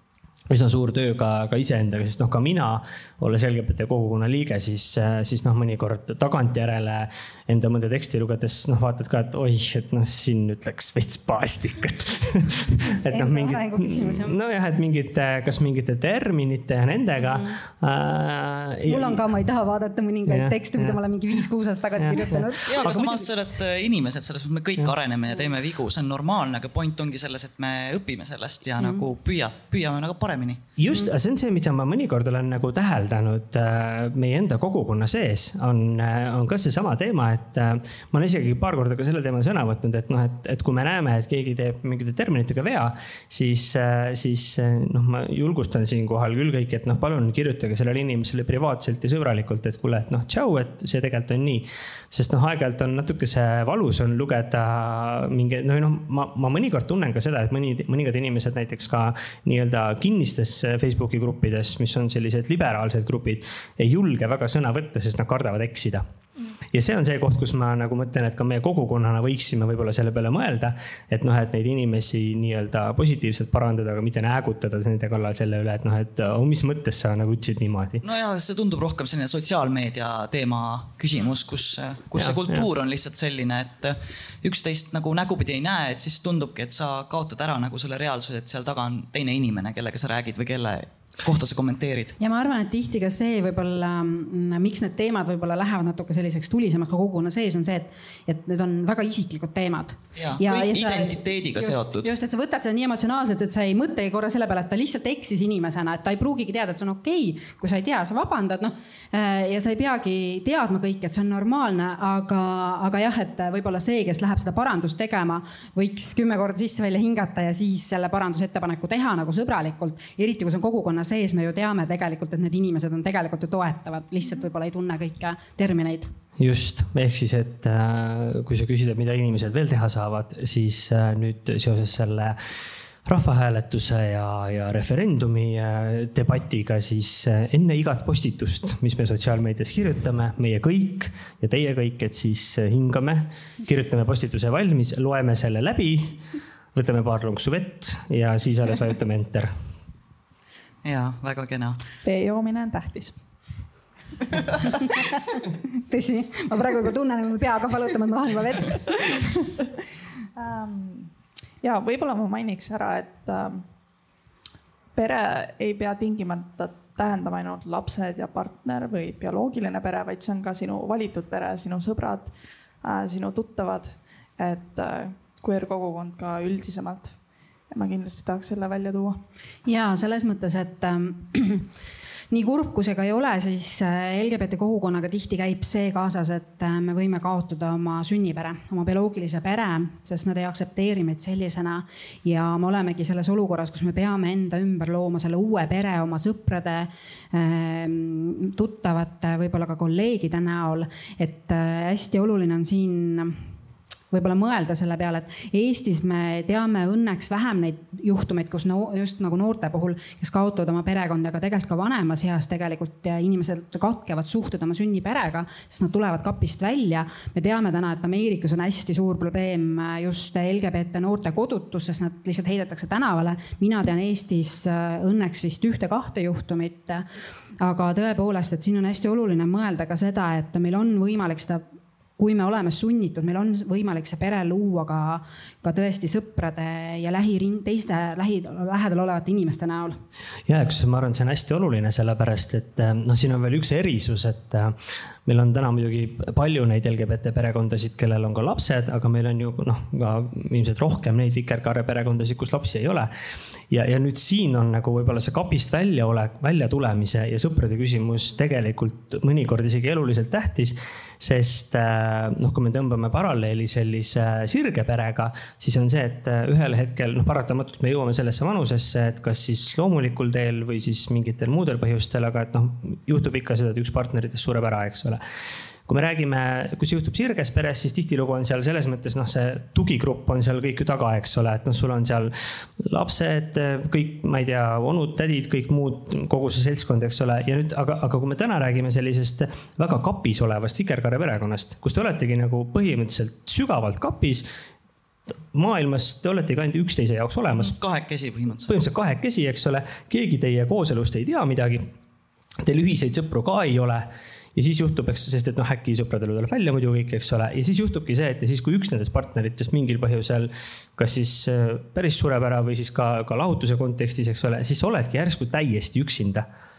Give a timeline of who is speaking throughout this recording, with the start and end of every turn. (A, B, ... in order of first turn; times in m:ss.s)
0:00.5-0:19.2 A
0:13.1-0:14.4 B
0:17.2-0:17.6 B
0:18.9-0:23.2 B
0:20.3-0:21.0 A
0:22.0-0:23.1 A
0:22.7-0:30.6 C
0:28.8-0:29.0 B
0:30.8-1:06.0 A
1:06.7-1:18.0 A
1:18.0-1:32.2 C
1:22.2-1:22.5 A
1:32.2-2:06.1 B
1:40.2-1:42.1 C
2:06.4-2:12.4 A
2:13.0-2:26.2 A
2:26.7-2:29.5 A
2:30.8-2:31.8 C
2:32.0-2:33.2 D
2:34.4-2:34.7 D
2:35.9-2:39.3 B
2:40.4-2:41.1 D
2:41.6-2:43.6 D
2:45.0-2:57.2 D
2:57.7-2:59.2 D
2:59.7-3:01.7 B
3:02.3-3:23.4 B
3:24.1-3:47.1 B
3:47.6-3:51.6 B
3:52.2-4:00.0 B
4:00.5-4:13.1 A
4:13.7-4:35.2 A
4:35.9-4:54.5 A
4:55.3-4:57.8 A
4:57.6-4:58.7 C
4:58.7-5:01.9 A
5:02.6-5:16.5 A